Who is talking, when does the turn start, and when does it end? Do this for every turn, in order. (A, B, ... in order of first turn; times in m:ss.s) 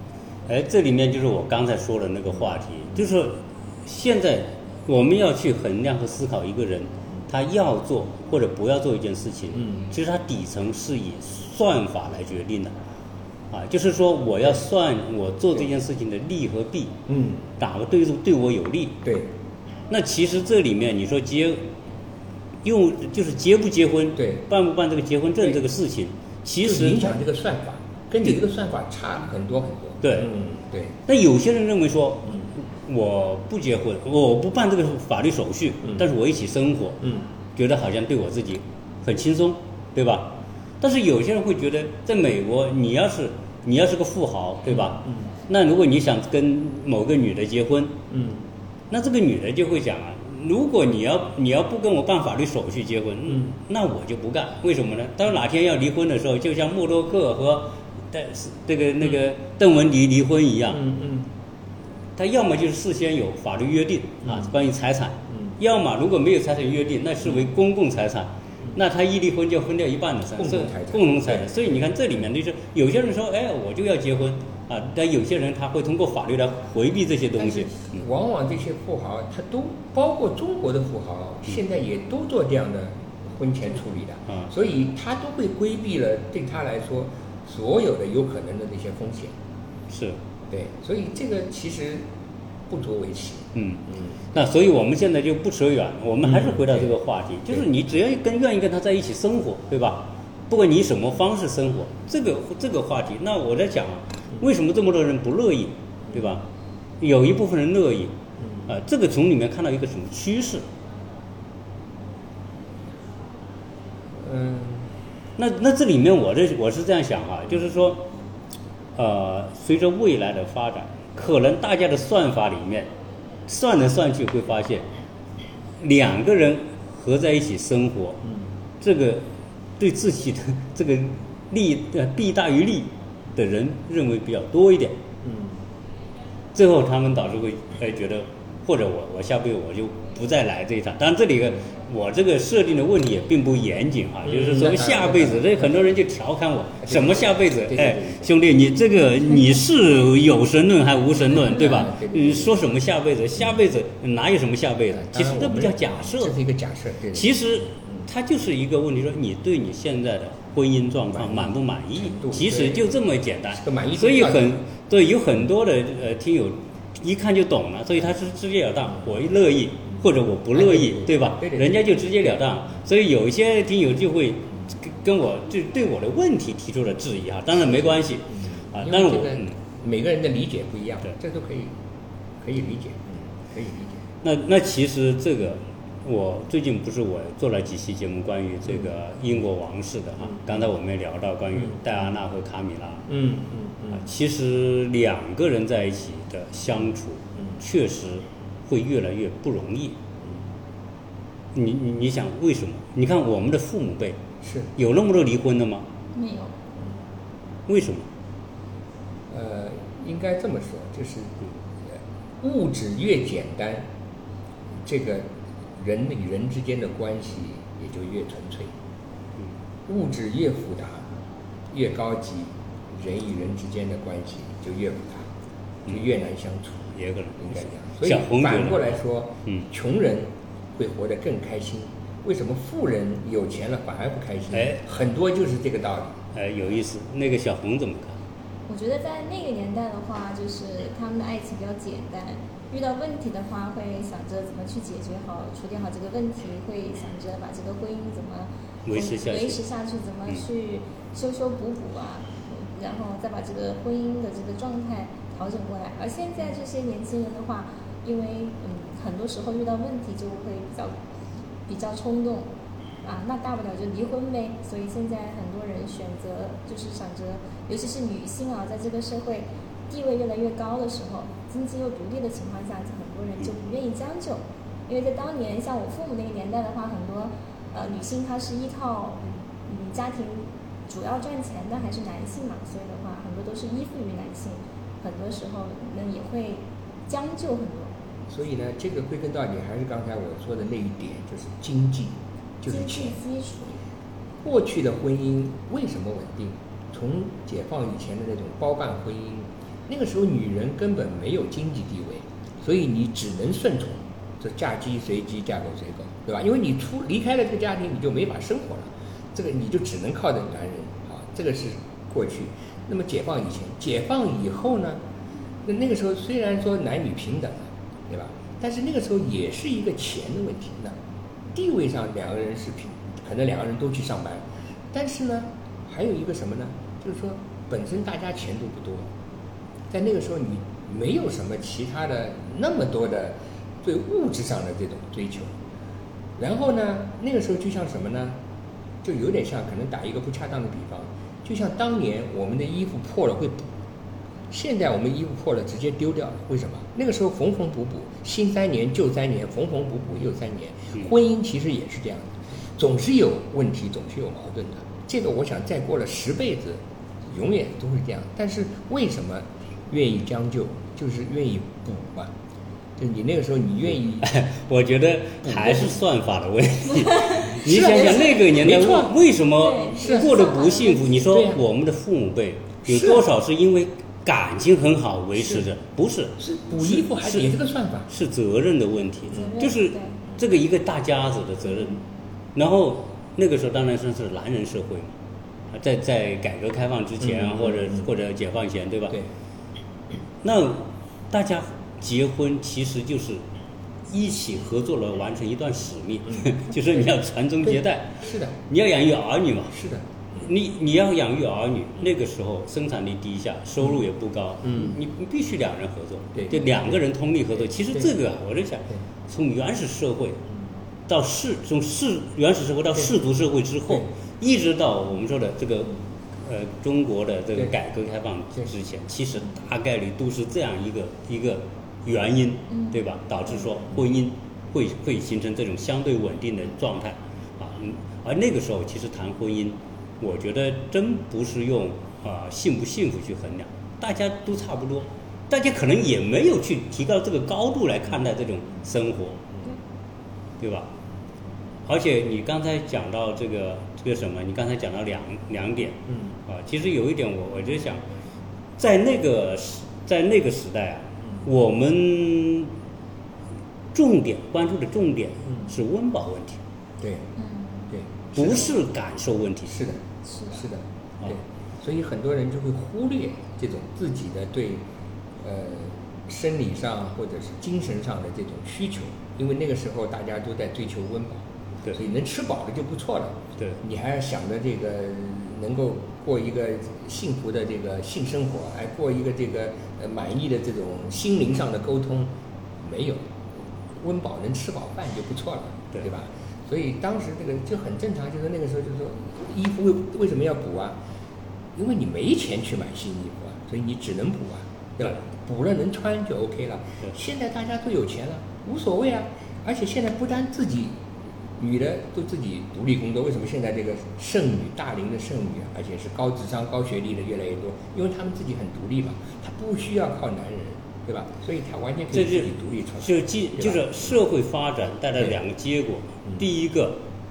0:00.5-0:12.7 A
0:13.5-0:17.0 A
0:17.1-0:17.4 B
0:17.6-0:19.0 A
0:19.0-0:19.3 B
0:19.9-0:21.6 A
0:22.6-0:27.2 A
0:26.6-0:30.9 B
0:30.0-0:30.3 A
0:31.1-0:37.0 A
0:37.5-0:48.0 A
0:44.7-0:45.2 B
0:48.1-0:48.4 B
0:48.9-1:00.9 A
1:00.7-1:01.3 B
1:02.2-1:18.0 A
1:10.4-1:11.5 B
1:17.4-1:29.4 B
1:29.9-1:30.2 A
1:30.5-1:32.1 B
1:32.7-1:34.1 B
1:33.5-1:46.4 A
1:36.2-1:36.8 B
1:47.0-1:48.1 A
1:48.6-1:50.6 A
1:54.2-1:54.9 B
1:55.4-1:58.1 A
1:58.9-2:02.9 A
2:03.5-2:04.9 A
2:05.8-2:08.2 A
2:08.8-2:15.0 A
2:15.2-2:15.6 B
2:16.5-2:36.4 A
2:24.2-2:25.9 B
2:26.9-2:28.3 B
2:31.4-2:32.6 B
2:34.9-2:38.0 B
2:37.1-2:59.6 A
2:41.1-2:42.9 B
2:43.6-2:44.6 B
2:50.5-2:51.8 B
2:58.3-3:01.8 B
3:02.4-3:04.0 B
3:04.2-3:13.1 A
3:13.1-3:14.0 B
3:13.9-3:20.0 A
3:21.5-3:24.2 A
3:24.4-3:24.7 B
3:24.7-3:25.9 A
3:26.1-3:26.5 C
3:27.7-3:28.1 A
3:29.3-3:31.3 B
3:31.9-3:33.9 B
3:34.8-3:38.7 B
3:39.9-3:41.1 B
3:41.7-3:45.3 B
3:45.9-3:56.2 B
3:46.9-3:49.6 A
3:54.5-3:54.8 A
3:56.3-3:58.2 A
3:58.7-4:21.0 C
4:08.8-4:09.6 A
4:21.7-4:22.5 C
4:23.0-4:47.9 C
4:48.3-4:53.2 B
4:52.7-4:53.8 C
4:54.4-5:15.0 B
5:15.6-5:21.0 B
5:21.5-5:29.1 B
5:29.9-5:35.5 B
5:36.4-5:38.4 B
5:39.0-5:43.7 B
5:44.5-6:02.3 B
6:03.0-6:04.3 B
6:04.2-6:17.5 A
6:05.5-6:05.8 B
6:07.6-6:09.1 B
6:09.6-6:11.2 C
6:10.0-6:10.3 B
6:11.2-6:11.6 B
6:12.9-6:13.2 B
6:16.4-6:18.1 B
6:18.1-6:22.0 A
6:19.3-6:20.1 C
6:22.5-6:25.2 A
6:25.7-6:29.2 A
6:27.2-6:28.0 B
6:30.4-6:33.4 A
6:34.1-6:39.8 A
6:38.2-6:38.5 B
6:39.7-6:40.4 B
6:40.4-6:50.4 A
6:44.6-6:44.9 B
6:46.4-6:46.7 B
6:51.1-7:19.4 A
7:20.6-7:20.9 A
7:21.8-7:28.0 A
7:28.8-7:32.7 A
7:33.9-7:36.6 A
7:37.0-7:37.3 B
7:37.4-7:37.9 C
7:37.9-7:38.7 B
7:38.3-7:39.8 A
7:39.7-7:44.8 B
7:40.3-7:40.5 C
7:45.4-8:03.3 B
8:03.9-8:11.0 B
8:11.7-8:21.0 B
8:21.6-8:33.9 B
8:32.1-8:37.0 A